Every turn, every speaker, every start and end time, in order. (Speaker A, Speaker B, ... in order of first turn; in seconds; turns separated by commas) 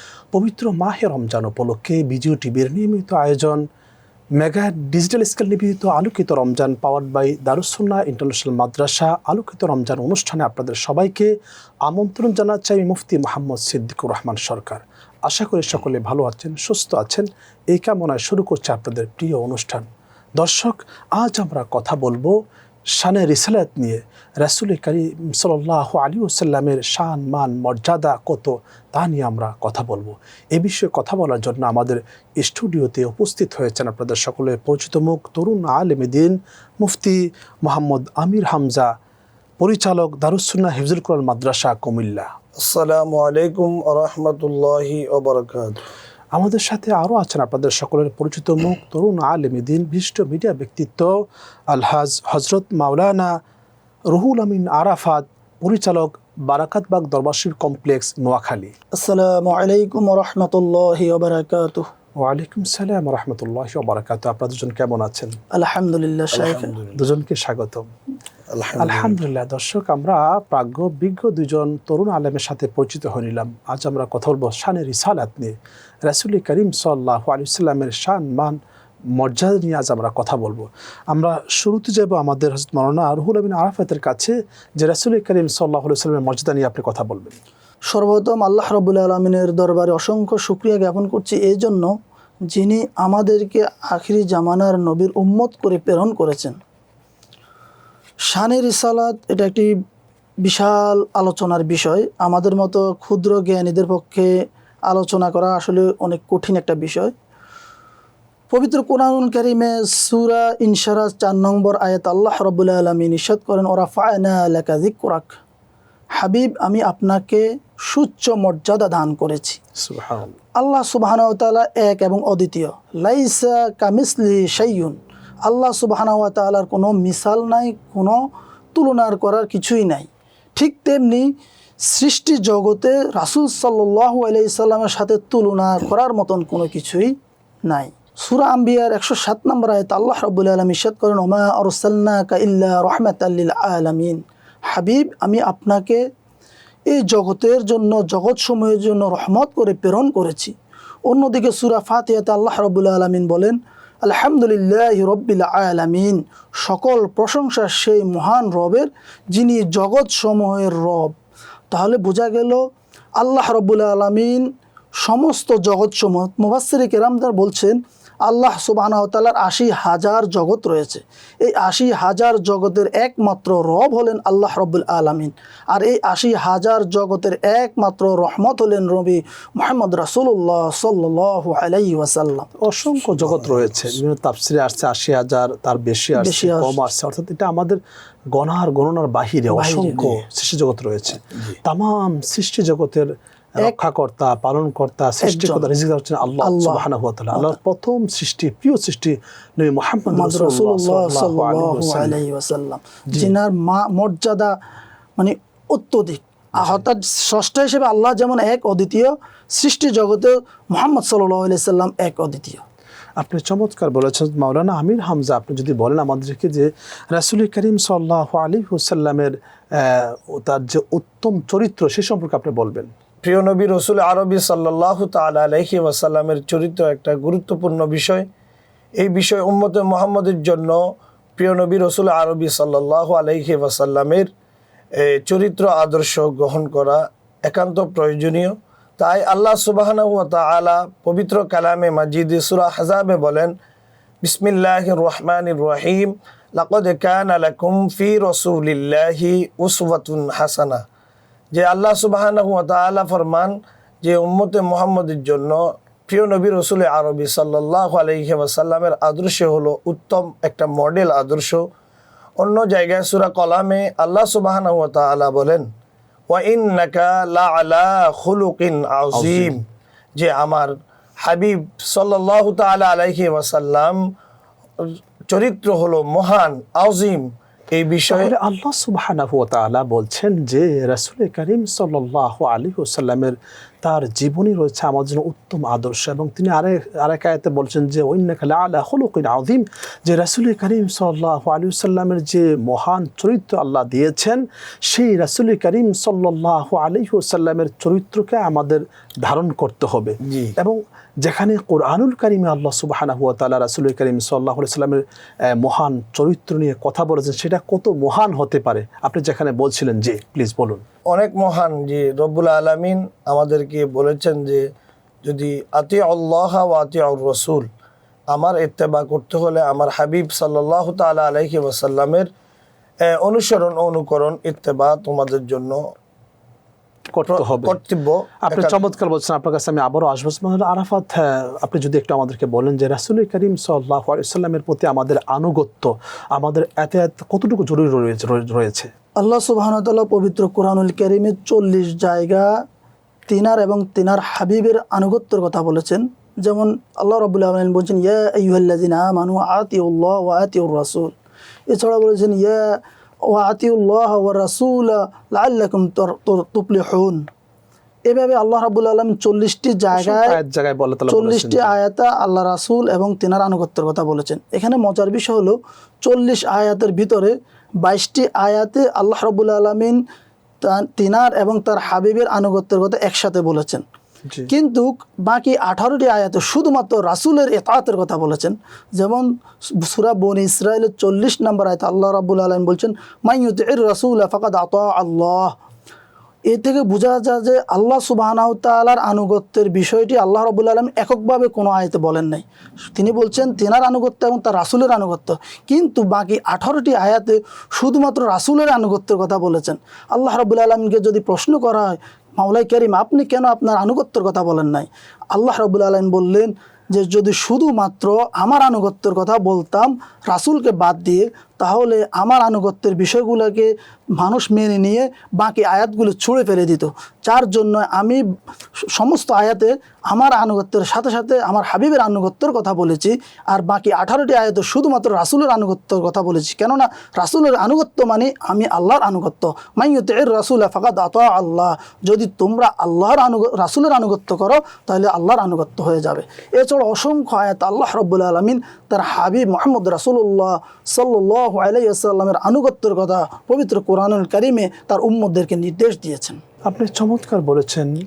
Speaker A: 0.3-3.6, Speaker A: 4.4-11.3, Speaker A: 11.9-19.9, Speaker A: 20.4-22.4, Speaker A: 23.0-38.9, Speaker A: 39.6-42.3, Speaker B: 42.6-45.8, Speaker A: 46.4-51.1, Speaker A: 51.7-53.3, Speaker A: 54.1-58.7, Speaker C: 59.0-61.9, Speaker A: 62.2-65.3, Speaker C: 65.5-66.7, Speaker B: 66.3-67.0, Speaker A: 67.0-67.9, Speaker B: 68.5-69.2, Speaker A: 68.8-78.6, Speaker A: 79.2-87.4, Speaker C: 87.9-91.9, Speaker C: 92.5-96.6, Speaker C: 98.3-99.7, Speaker C: 100.4-104.3, Speaker C: 104.9-107.1, Speaker C: 108.5-115.4, Speaker C: 116.2-119.6, Speaker A: 119.8-120.3, Speaker C: 120.6-128.2, Speaker C: 128.8-131.3, Speaker C: 131.9-137.1, Speaker C: 137.7-146.0, Speaker C: 146.9-150.5, Speaker C: 151.1-161.1, Speaker C: 161.7-162.6, Speaker C: 163.2-164.5, Speaker C: 165.0-182.5, Speaker A: 182.6-187.8, Speaker C: 186.2-186.8, Speaker A: 188.3-193.1, Speaker C: 189.5-190.2, Speaker A: 193.6-202.2, Speaker C: 195.2-195.7, Speaker C: 196.4-197.6, Speaker C: 200.1-204.5, Speaker C: 205.2-212.6, Speaker A: 213.2-222.9, Speaker B: 223.2-228.3, Speaker B: 229.0-230.8, Speaker B: 231.4-234.3, Speaker B: 235.0-243.5, Speaker B: 244.2-250.8, Speaker B: 251.5-261.6, Speaker B: 262.4-265.7, Speaker B: 266.3-269.6, Speaker A: 269.1-269.6, Speaker B: 270.2-274.0, Speaker B: 275.3-278.3, Speaker A: 278.1-305.0, Speaker B: 300.3-300.6, Speaker A: 305.5-310.8, Speaker B: 311.1-314.6, Speaker B: 315.2-317.7, Speaker B: 318.3-322.3, Speaker B: 323.1-325.8, Speaker A: 327.1-327.8, Speaker B: 327.3-328.8, Speaker A: 328.5-338.9, Speaker C: 339.2-342.5, Speaker C: 343.3-351.1, Speaker C: 351.7-352.8, Speaker C: 353.3-357.2, Speaker C: 358.1-360.4, Speaker A: 359.9-361.7, Speaker C: 361.1-370.0, Speaker C: 370.6-373.8, Speaker C: 374.5-385.5, Speaker C: 386.5-418.2, Speaker C: 419.0-446.4, Speaker A: 446.7-447.9